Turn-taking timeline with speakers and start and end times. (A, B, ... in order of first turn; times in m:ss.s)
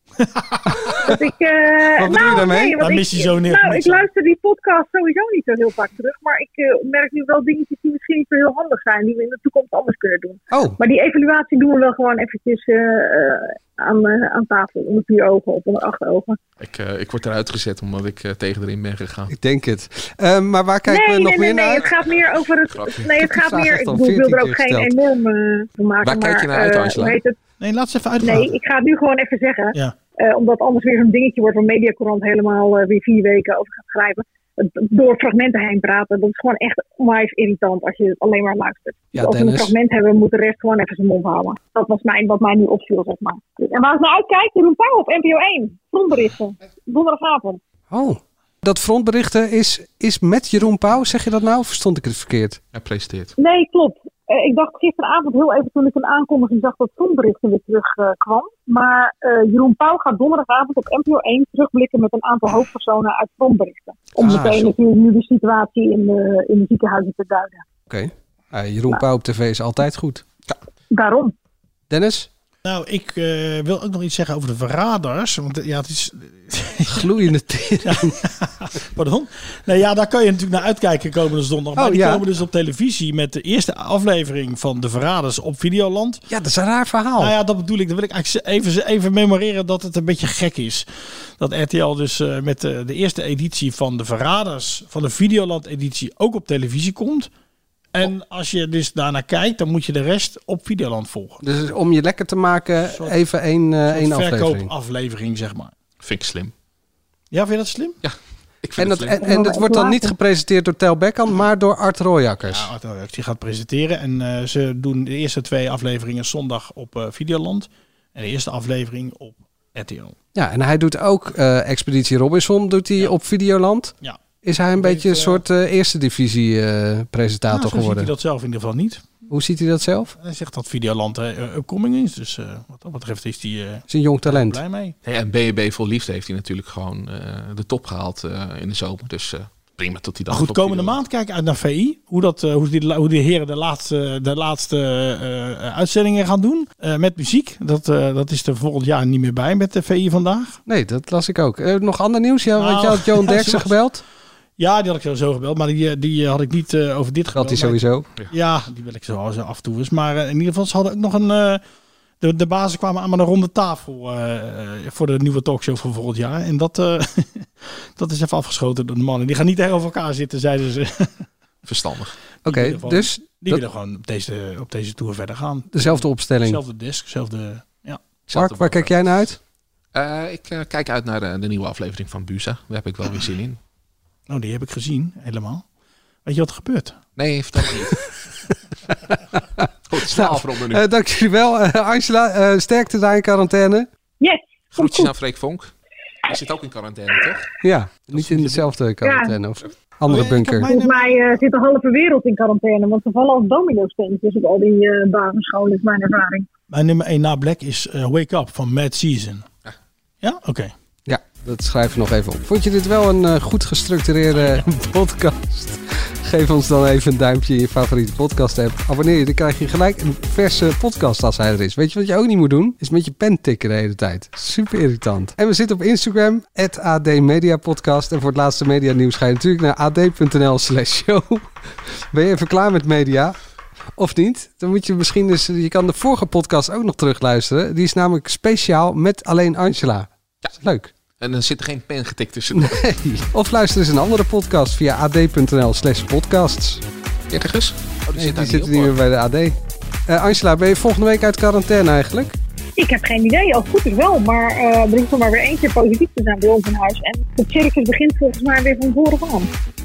0:00.2-0:01.2 A
0:01.0-0:16.4 B
0:01.9-0:02.8 C
0:02.2-0:04.1 A
0:10.5-0:10.8 C
0:16.6-0:19.3 D
0:19.3-0:21.9 C
0:20.9-0:27.4 B
0:21.8-0:23.2 D
0:23.2-0:24.9 C
0:26.0-0:27.2 D
0:27.6-0:28.5 A
0:28.2-0:47.6 B
0:39.1-0:39.7 C
0:47.9-0:52.6 C
0:52.7-0:53.4 D
0:53.4-1:07.6 B
1:04.2-1:04.7 C
1:07.9-1:10.2 C
1:10.9-1:11.3 B
1:11.9-1:12.3 C
1:12.6-1:17.3 A
1:16.9-1:18.2 C
1:17.8-1:26.2 A
1:21.8-1:22.2 C
1:26.3-1:27.4 C
1:27.2-1:37.3 A
1:37.9-1:41.4 A
1:41.4-1:44.7 C
1:42.9-1:43.2 A
1:43.9-1:45.7 A
1:46.0-1:46.5 D
1:47.3-1:48.0 A
1:48.0-1:49.2 D
1:48.8-1:52.7 C
1:49.2-1:50.1 B
1:52.4-2:00.2 A
2:00.4-2:08.1 C
2:04.8-2:05.4 A
2:07.5-2:09.3 A
2:09.3-2:10.2 C
2:10.2-2:15.0 A
2:13.9-2:14.6 C
2:15.0-2:21.0 D
2:20.3-2:30.6 A
2:30.7-2:34.0 C
2:32.6-2:33.8 A
2:34.6-2:41.6 A
2:37.3-2:38.1 C
2:42.2-2:51.3 A
2:51.7-2:52.2 D
2:52.4-2:53.6 C
2:52.4-2:58.0 A
2:55.7-2:56.6 C
2:58.3-2:58.9 D
2:58.3-2:59.4 C
2:59.9-3:03.6 D
3:04.3-3:05.6 A
3:06.2-3:07.0 A
3:07.2-3:08.1 D
3:08.9-3:13.9 C
3:09.9-3:10.8 D
3:14.2-3:15.0 B
3:14.7-3:15.7 D
3:16.2-3:17.5 D
3:17.6-3:20.7 C
3:18.1-3:18.7 A
3:19.0-3:19.3 B
3:20.1-3:21.2 A
3:20.6-3:26.5 B
3:26.7-3:29.5 A
3:30.2-3:30.7 A
3:31.1-3:53.4 C
3:34.3-3:34.7 A
3:54.0-4:00.9 C
4:01.2-4:02.8 D
4:02.5-4:06.8 C
4:07.3-4:08.9 D
4:08.2-4:09.6 C
4:10.1-4:12.4 C
4:12.8-4:19.5 B